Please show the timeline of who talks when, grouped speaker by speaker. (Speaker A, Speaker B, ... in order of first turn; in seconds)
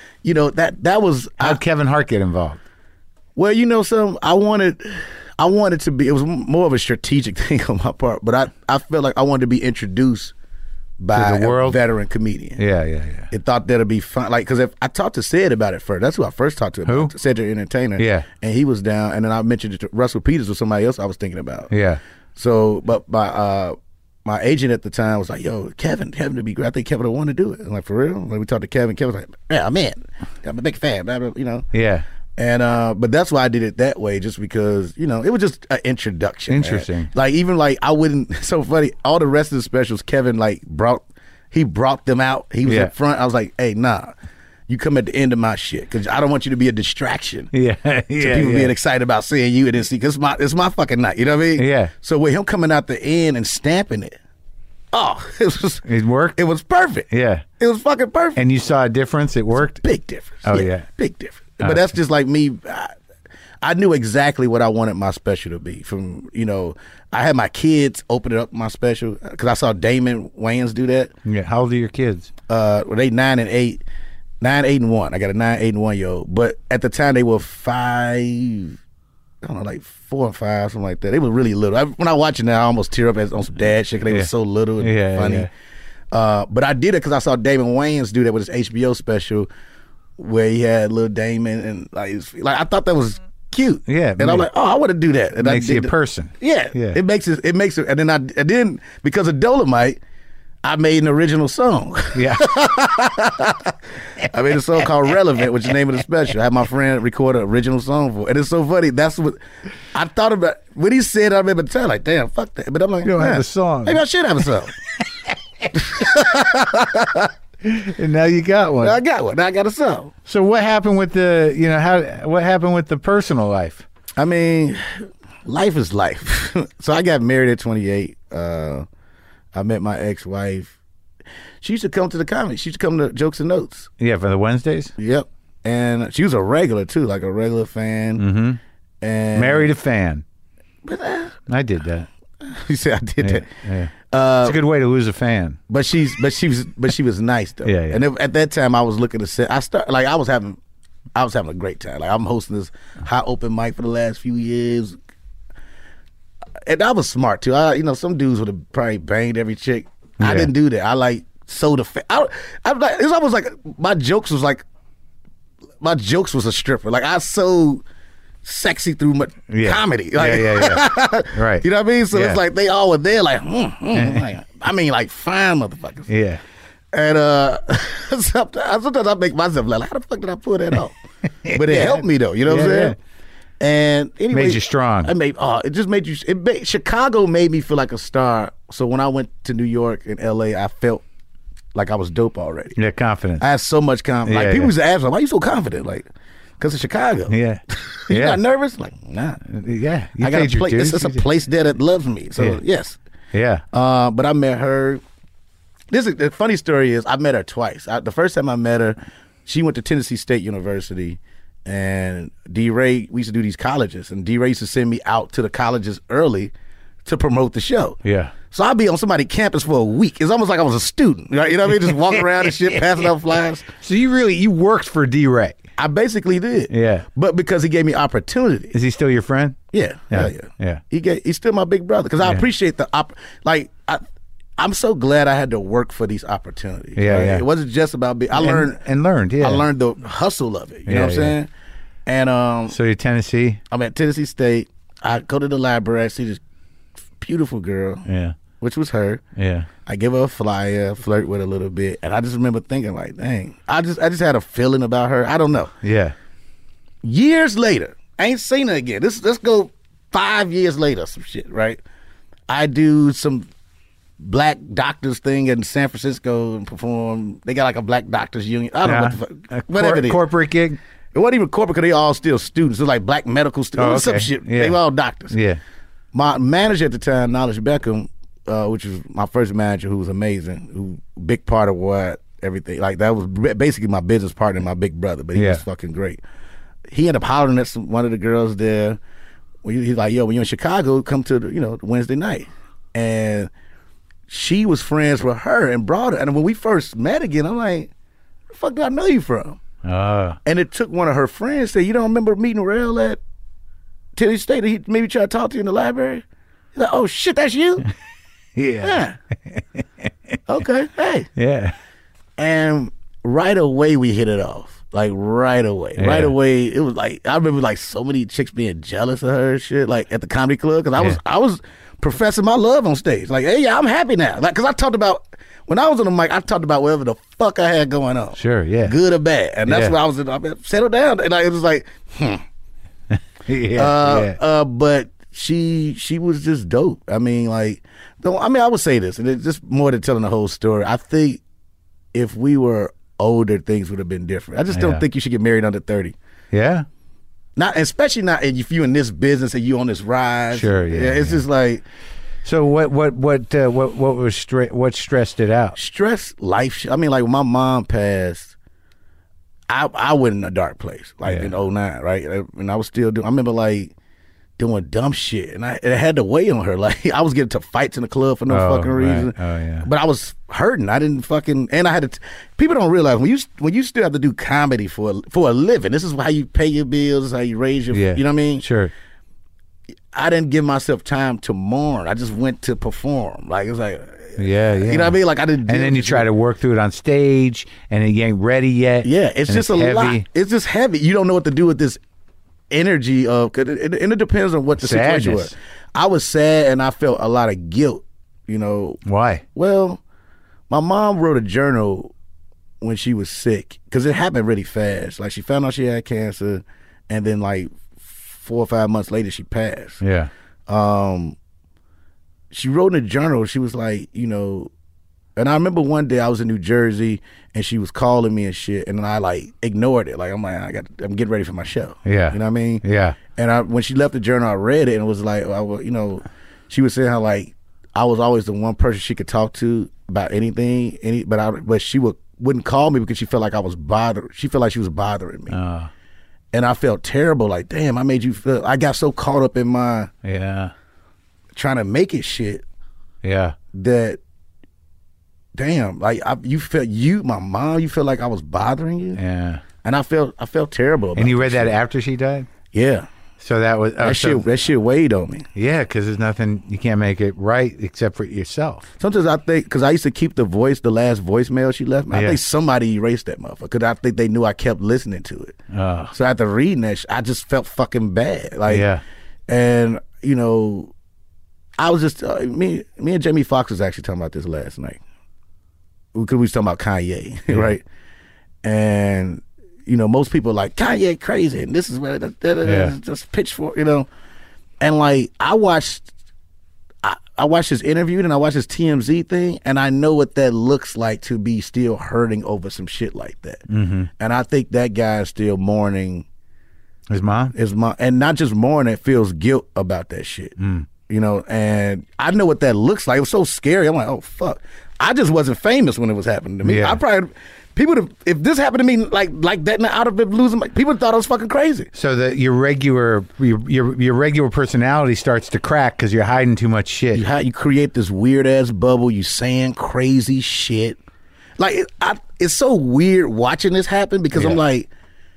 Speaker A: 0.2-1.6, 3.4-10.3, 11.0-12.6, 13.3-21.7, 22.4-31.7, 32.4-44.1, 44.7-47.5, 48.2-54.2, 54.9-58.4, 59.6-63.0, 63.6-71.1, 72.5-73.8, 74.4-78.8, 79.4-85.5, 86.1-89.5, 90.2-100.0, 100.6-109.4, 109.9-114.7, 115.7-117.3, 118.8-120.1, 124.2-128.8, 129.5-130.8, 131.6-133.9, 135.0-138.2, 139.0-139.7, 140.8-141.4, 142.4-143.5, 144.1-144.6, 145.7-150.6, 151.2-155.0, 156.7-164.6, 165.8-167.8, 168.4-176.1, 176.9-181.0, 181.5-183.0, 183.6-191.0, 191.7-192.8, 193.4-196.1, 196.6-199.4, 200.2-203.0, 203.7-205.0, 205.9-216.5, 217.1-218.0, 218.5-223.7, 225.8-228.7, 229.7-234.0, 234.6-238.8, 239.4-241.5, 242.1-242.8, 243.7-246.4, 247.2-248.1, 248.6-249.2, 249.9-255.7, 257.0-261.8, 262.5-263.5, 264.2-270.2, 271.1-275.4, 276.1-286.2, 286.9-289.0, 289.6-293.5, 294.3-297.9, 298.5-299.6, 300.4-303.2, 304.1-306.2, 306.8-307.9, 308.8-309.2, 310.5-311.3, 312.4-332.4, 333.8-341.4, 342.1-346.1, 347.6-351.8, 355.8-358.5, 359.7-363.9, 364.6-378.6, 380.1-386.3, 389.0-392.0, 392.7-399.0, 399.6-400.0, 400.7-402.1, 402.8-410.0, 410.7-411.4, 412.5-414.7, 415.4-435.6, 436.5-440.1, 441.5-442.6, 443.7-444.2, 445.6-449.2, 449.8-451.8, 452.7-453.1, 454.0-455.5, 459.0-465.6, 466.1-468.9, 469.5-470.9, 471.8-475.0, 476.1-477.8, 478.6-484.1, 484.8-486.1, 487.0-493.6, 494.2-496.3, 497.6-500.6, 501.1-511.9, 517.1-521.0, 521.6-524.9
Speaker B: 1.4-2.6, 11.1-11.8, 12.6-13.3, 16.9-17.1, 18.0-18.3, 21.7-22.0, 31.7-32.0, 36.5-37.1, 42.7-42.9, 47.5-48.7, 51.6-51.9, 55.9-56.4, 57.1-57.5, 58.4-59.8, 60.5-60.9, 61.6-61.9, 71.2-72.3, 84.8-85.5, 93.9-94.5, 95.4-97.0, 102.1-102.6, 113.0-114.0, 117.6-119.0, 120.3-123.8, 134.0-134.9, 138.2-138.6, 139.3-140.2, 141.5-142.1, 143.2-145.6, 147.7-148.0, 160.2-160.5, 169.5-172.4, 173.9-174.3, 176.1-176.4, 181.4-183.0, 184.3-185.1, 192.8-193.4, 194.2-194.7, 197.3-198.4, 199.5-201.2, 203.3-203.6, 218.0-218.3, 223.8-225.6, 226.7-227.1, 228.7-229.6, 230.1-230.8, 237.0-237.5, 238.3-239.7, 240.9-241.4, 242.7-243.6, 248.1-248.4, 249.4-249.7, 255.8-256.1, 268.8-270.8, 273.8-274.8, 275.3-275.6, 285.4-285.6, 299.8-300.4, 308.6-309.6, 311.4-311.8, 316.0-316.3, 328.4-328.9, 329.7-329.9, 333.5-334.4, 344.7-345.0, 346.5-346.9, 350.5-351.4, 352.4-355.8, 361.3-361.5, 368.5-369.9, 377.9-378.9, 384.4-390.3, 394.8-395.5, 399.1-399.4, 410.0-410.3, 422.1-423.2, 435.5-435.9, 440.2-440.7, 443.2-443.6, 449.2-449.6, 451.2-452.5, 453.4-454.4, 455.6-458.9, 462.1-462.4, 465.7-466.1, 468.7-469.0, 482.6-482.9, 493.7-494.1, 497.1-497.5, 500.6-500.9, 506.6-507.0, 511.9-517.2, 524.4-524.6